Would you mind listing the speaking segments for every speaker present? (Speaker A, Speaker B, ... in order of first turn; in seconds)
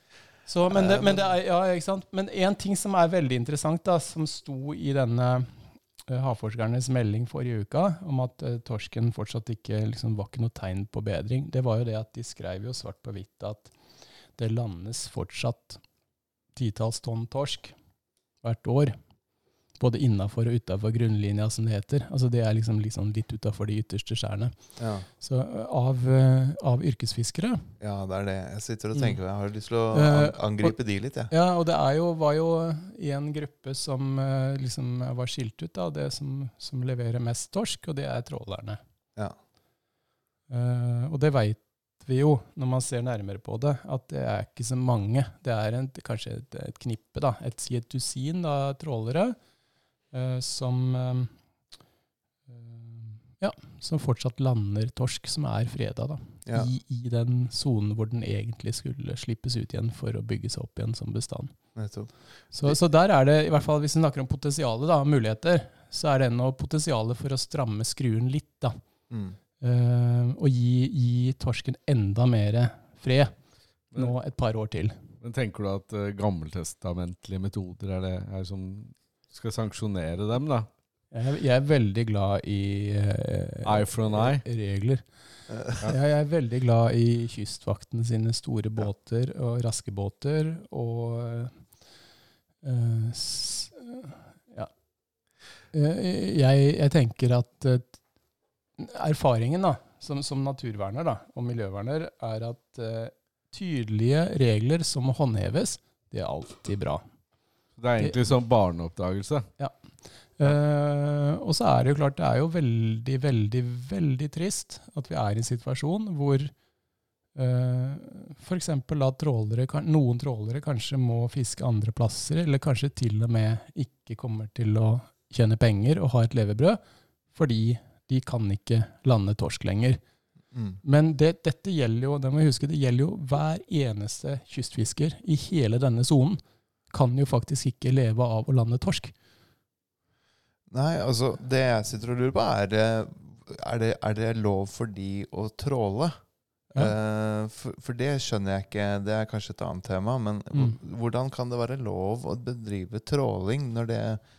Speaker A: 0.5-13.7, 14.4-15.8, 16.5-17.7, 18.4-19.0, 19.8-24.6, 25.2-27.7, 29.9-30.8, 31.3-38.8, 40.5-49.4, 50.1-51.3, 52.5-61.5, 62.5-68.8, 69.6-73.3, 74.0-75.0, 81.1-85.0, 85.7-91.6, 92.6-94.7, 95.7-98.0, 98.8-107.0, 110.4-116.5, 117.3-126.8, 127.3-130.0, 130.8-136.4, 136.9-139.1
Speaker B: 0.7-1.3, 24.8-25.1, 27.8-31.3, 61.7-62.1, 69.1-69.4, 85.5-85.8, 130.5-130.8, 140.7-146.2, 146.7-154.2
Speaker C: 75.2-80.7, 83.6-84.4, 107.8-109.5